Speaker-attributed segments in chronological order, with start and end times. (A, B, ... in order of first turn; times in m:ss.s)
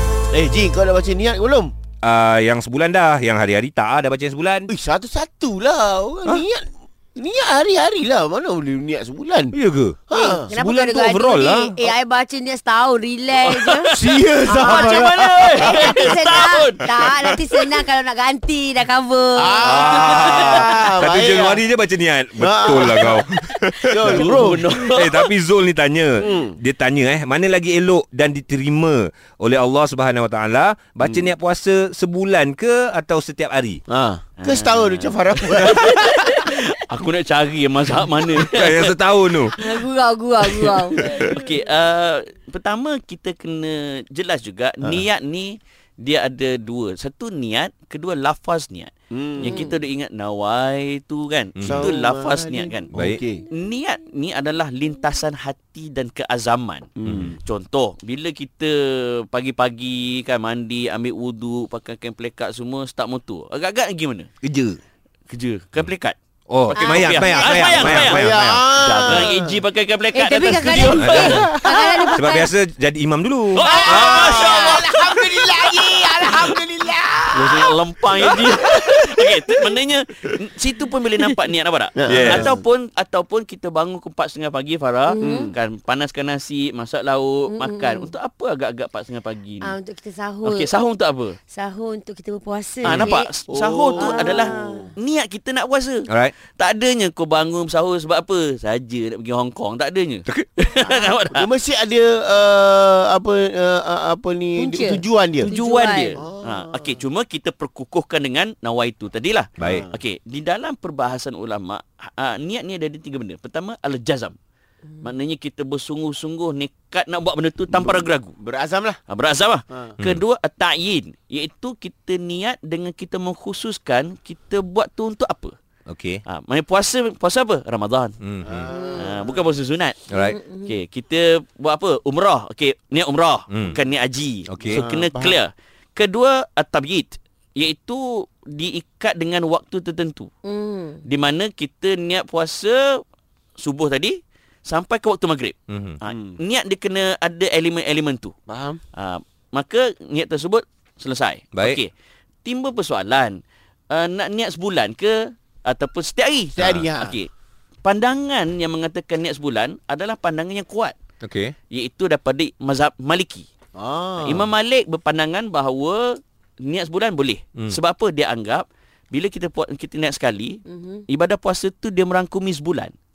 0:00.3-0:01.7 A
0:02.0-0:04.7 B
0:04.7-0:09.6 A
0:09.5-0:11.9 B
0:10.1-0:10.5 A
0:10.1-0:13.9 C
0:13.4-0:17.7 D
0:13.9-0:16.0 A
0:14.5-0:15.5 B
0:14.7-0:19.8 C
0:19.4-0:21.6 A
0:19.6-0:33.8 B
0:20.1-0:20.4 D
0:22.4-0:23.3 A
0:23.9-0:24.6 A
0:24.0-0:25.3 D
0:26.2-0:26.6 A
0:33.9-0:36.2 A
0:34.4-0:39.0 D
0:38.4-0:39.6 B
0:39.6-0:41.0 C
0:40.5-0:52.9 D
0:41.0-0:41.4 B
0:49.1-0:49.6 A
0:49.4-0:49.7 C
0:51.6-0:51.9 B
0:51.6-0:53.4 A
0:52.9-0:53.2 B
0:53.5-1:04.3 D
0:57.0-0:57.4 A
0:57.1-0:57.3 B
1:04.4-1:04.8 B
1:05.3-1:06.2 D
1:06.5-1:09.2 B
1:06.7-1:08.0 C
1:06.7-1:11.5 D
1:07.8-1:09.6 A
1:10.1-1:12.5 C
1:10.8-1:14.6 B
1:11.2-1:12.1 A
1:13.6-1:16.6 D
1:13.6-1:19.0 A
1:17.3-1:29.7 D
1:22.0-1:22.6 A
1:22.1-1:22.5 B
1:25.1-1:25.5 C
1:25.2-1:25.6 A
1:27.5-1:28.1 C
1:29.6-1:30.7 C
1:30.4-1:31.4 D
1:31.5-1:33.3 C
1:32.8-1:41.5 D
1:33.0-1:34.9 A
1:34.0-1:34.9 C
1:36.1-1:36.3 B
1:41.3-1:45.5 A
1:44.6-1:46.2 C
1:45.4-1:54.4 D
1:46.2-1:47.0 A
1:49.6-1:49.8 B
1:49.6-1:50.0 A
1:55.0-1:58.4 D
1:57.8-1:59.0 A
1:59.1-2:05.6 D
2:05.9-2:06.2 B
2:06.3-2:08.2 D
2:08.2-2:08.7 B
2:08.4-2:09.5 A
2:08.8-2:10.0 D
2:10.1-2:10.4 B
2:10.2-2:10.7 C
2:10.6-2:20.3 D
2:13.5-2:13.8 B
2:14.5-2:14.8 B
2:14.6-2:15.4 A
2:20.4-2:21.0 C
2:21.0-2:23.0 D
2:23.6-2:28.3 D
2:25.7-2:26.0 B
2:28.5-2:28.8 A
2:28.9-2:31.9 D
2:31.6-2:31.8 B
2:32.4-2:37.3 D
2:36.6-2:37.2 A
2:37.8-2:41.0 D
2:41.2-2:41.5 B
2:41.7-2:43.5 D
2:43.8-2:44.5 A
2:44.2-2:52.9 D
2:50.7-2:51.0 C